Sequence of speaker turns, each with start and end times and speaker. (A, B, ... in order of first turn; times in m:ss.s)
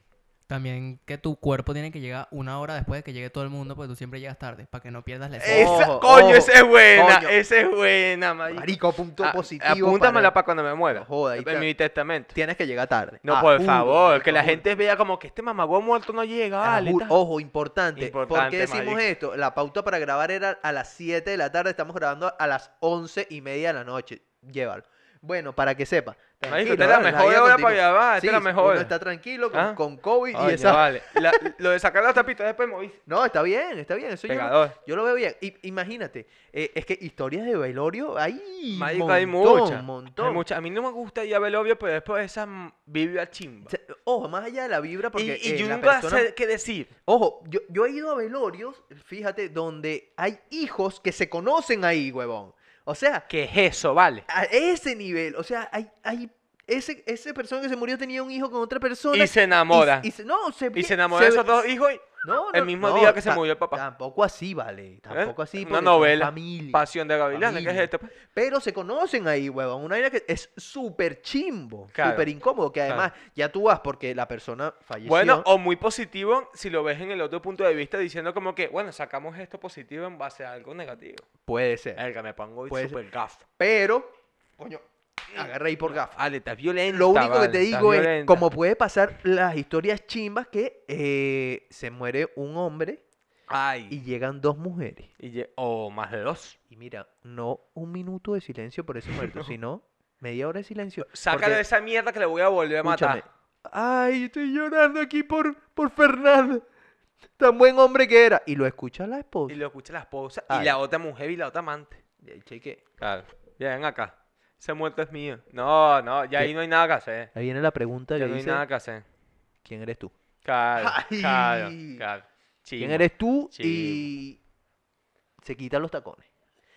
0:00.5-0:06.0 A
0:05.4-0:07.3 B
0:05.4-0:12.4 C
0:08.5-0:10.3 B
0:10.9-0:11.7 B
0:12.3-0:14.6 B
0:13.2-0:17.2 C
0:16.6-0:31.4 B
0:18.0-0:19.0 C
0:26.4-0:28.9 C
0:29.5-0:29.8 C
0:30.3-0:33.0 C
0:33.1-0:40.4 B
0:34.3-0:34.8 C
0:38.7-0:43.7 C
0:43.6-0:46.3 B
0:45.1-0:46.9 C
0:47.0-0:53.3 B
0:53.3-0:54.2 C
0:54.3-1:01.6 B
0:59.1-1:00.1 C
1:00.7-1:03.8 C
1:02.2-1:15.5 B
1:05.1-1:08.1 C
1:11.9-1:12.3 C
1:15.0-1:21.2 C
1:21.4-1:22.0 B
1:22.0-1:23.4 C
1:22.7-1:23.0 B
1:23.6-1:26.2 B
1:25.8-1:28.5 C
1:26.9-1:33.0 B
1:33.5-1:34.0 C
1:33.9-1:35.1 B
1:35.2-1:36.6 C
1:36.7-1:41.6 B
1:39.2-1:39.5 C
1:41.1-1:43.2 C
1:42.8-1:46.6 B
1:47.4-1:49.6 B
1:49.5-1:52.0 C
1:50.5-1:50.7 B
1:52.2-1:52.8 B
1:53.0-1:57.3 C
1:57.3-1:58.6 B
1:58.2-1:59.0 C
1:59.6-2:00.1 B
2:00.4-2:04.1 C
2:00.8-2:02.0 B
2:02.8-2:04.4 B
2:05.4-2:06.2 B